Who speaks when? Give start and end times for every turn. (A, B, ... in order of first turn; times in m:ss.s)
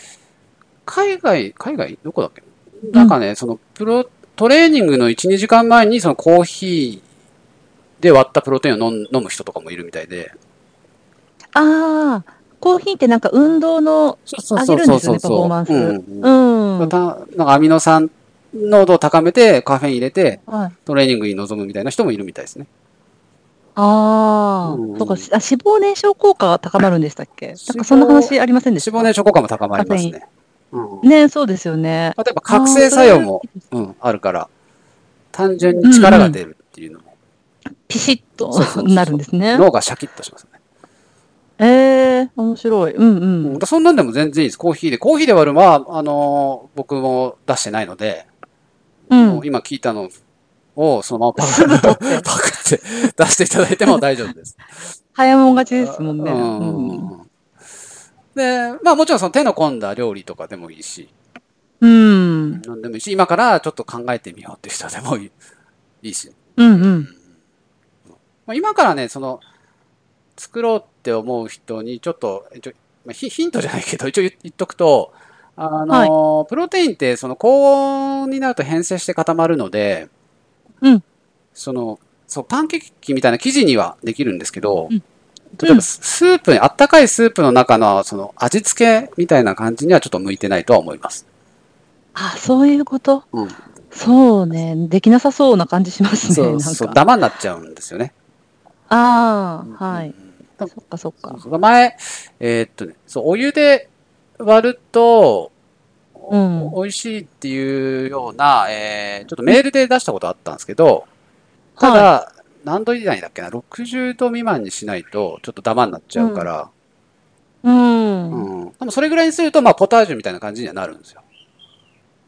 0:00.8-0:07.0 A
0:08.0-0:10.3 A
0:11.5-0:16.9 B
0:14.3-0:22.7 A
0:20.5-0:20.7 B
0:23.8-0:29.1 B
0:24.6-0:25.3 A
0:27.6-0:31.1 A
0:29.7-0:30.1 B
0:31.0-0:33.5 B
0:32.2-0:34.5 A
0:35.3-0:37.1 A
0:35.8-0:36.3 B
0:37.9-0:39.6 B
0:38.4-0:40.6 A
0:41.6-0:43.6 B
0:43.4-0:48.3 A
0:49.1-0:49.4 B
0:49.2-0:50.1 A
0:50.8-0:54.6 A
0:51.4-0:52.3 B
0:55.1-0:57.1 B
0:55.7-0:57.3 A
0:58.3-1:01.1 A
1:01.8-1:02.6 B
1:02.5-1:05.3 A
1:06.0-1:07.1 A
1:06.6-1:07.1 B
1:08.4-1:09.4 A
1:10.4-1:20.1 A
1:21.5-1:24.9 A
1:25.6-1:31.2 A
1:25.6-1:25.8 B
1:32.1-1:33.2 B
1:33.9-1:37.0 B
1:36.2-1:38.1 A
1:38.9-1:40.1 B
1:39.7-1:40.7 A
1:40.7-1:41.4 B
1:41.2-1:45.5 A
1:46.2-1:51.1 A
1:46.3-1:46.7 B
1:51.8-1:52.1 B
1:51.8-1:56.7 A
1:56.1-1:56.5 B
1:57.6-1:58.5 B
1:58.3-2:01.2 A